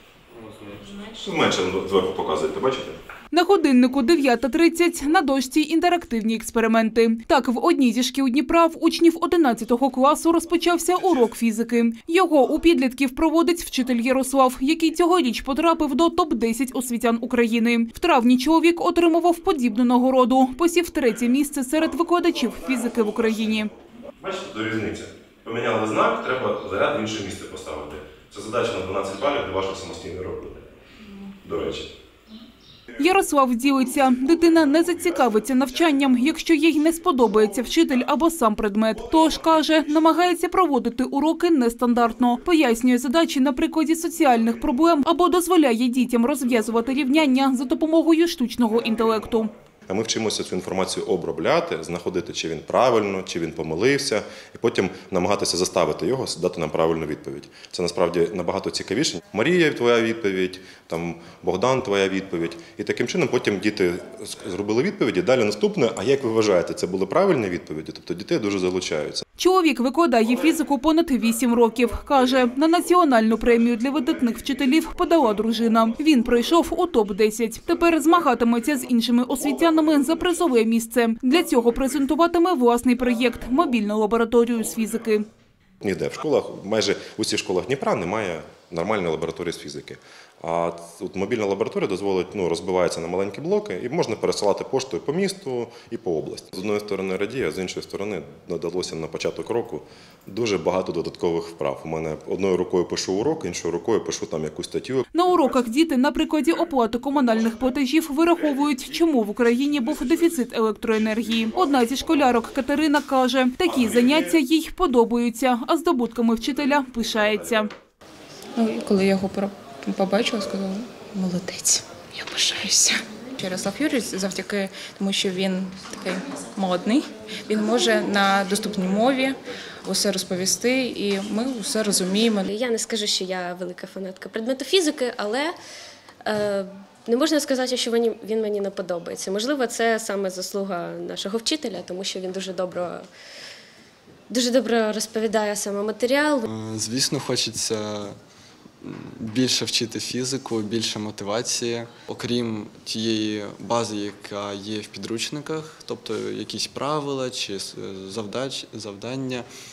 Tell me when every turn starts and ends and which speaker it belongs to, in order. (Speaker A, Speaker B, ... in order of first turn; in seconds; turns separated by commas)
Speaker A: 0.8-3.0, Speaker B: 3.3-23.7, Speaker A: 21.9-30.7, Speaker A: 31.4-31.9, Speaker B: 33.0-49.5, Speaker A: 34.2-36.0, Speaker A: 38.9-40.1, Speaker A: 48.8-49.2, Speaker A: 49.9-69.2, Speaker B: 69.4-85.2, Speaker A: 75.1-76.0, Speaker A: 79.4-80.3, Speaker A: 81.6-81.8, Speaker A: 85.8-105.5, Speaker B: 105.1-117.7, Speaker A: 109.9-110.3, Speaker A: 111.0-112.4, Speaker A: 113.6-114.3, Speaker C: 118.5-132.5, Speaker D: 132.4-135.6, Speaker D: 136.2-143.1, Speaker D: 144.3-146.4, Speaker E: 146.4-148.2, Speaker E: 148.8-159.5